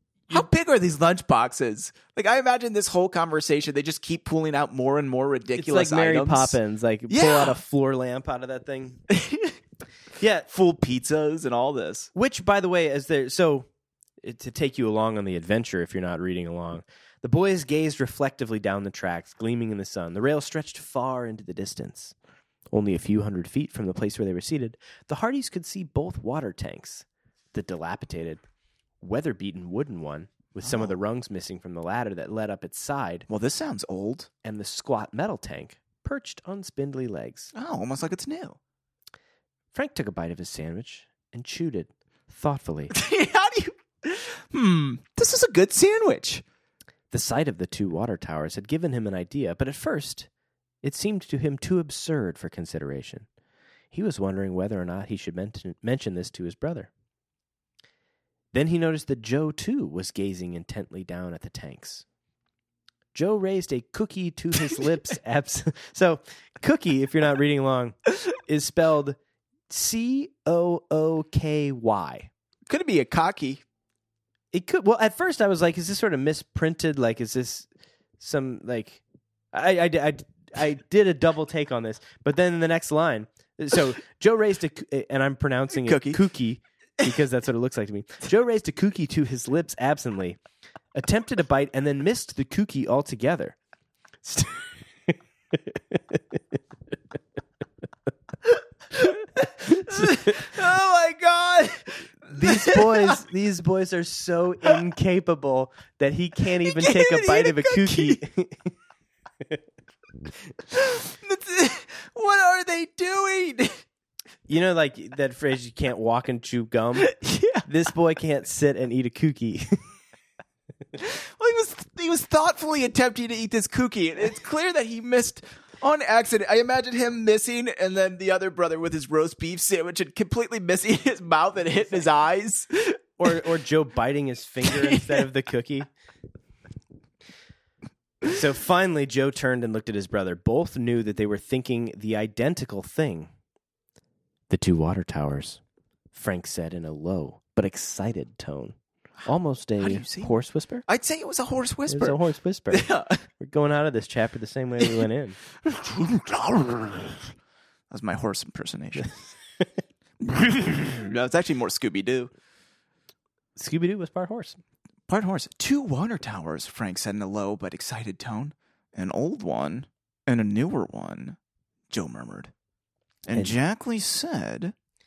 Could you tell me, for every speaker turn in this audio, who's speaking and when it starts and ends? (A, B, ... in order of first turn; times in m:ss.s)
0:00.3-0:06.6 A
0:05.6-0:09.0 B
0:07.1-0:07.6 A
0:09.1-0:09.6 A
0:10.2-0:10.5 B
0:10.5-0:12.1 A
0:12.1-0:13.7 B
0:14.2-0:22.1 B
0:22.7-0:28.4 B
0:29.0-0:33.3 B
0:30.7-0:30.9 A
0:33.3-0:34.3 A
0:34.4-0:37.5 B
0:37.5-0:38.6 A
0:39.7-0:42.9 B
0:42.9-0:46.4 A
0:47.1-0:50.3 B
0:50.8-0:53.2 B
0:53.9-0:56.9 B
0:58.5-1:02.0 B
1:03.1-1:09.2 B
1:09.7-1:12.3 B
1:12.7-1:13.6 A
1:14.5-1:17.7 B
1:18.2-1:30.4 B
1:25.7-1:26.2 A
1:30.9-1:33.6 B
1:34.2-1:34.6 B
1:38.9-1:43.2 A
1:39.6-1:40.3 B
1:42.3-1:48.7 B
1:46.6-1:48.2 A
1:50.7-1:53.8 A
1:54.5-1:57.1 B
1:57.0-1:57.6 A
1:57.6-1:59.7 B
2:01.0-2:13.0 A
2:13.2-2:15.9 B
2:14.6-2:15.3 A
2:18.2-2:23.3 B
2:24.5-2:25.6 B
2:26.1-2:28.7 B
2:29.2-2:30.8 B
2:29.8-2:30.3 A
2:30.9-2:33.2 A
2:31.9-2:35.4 B
2:35.6-2:37.3 A
2:37.9-2:39.1 A
2:40.2-2:42.3 A
2:43.6-2:44.6 B
2:45.1-2:51.4 A
2:51.9-2:52.5 A
2:53.2-2:54.7 A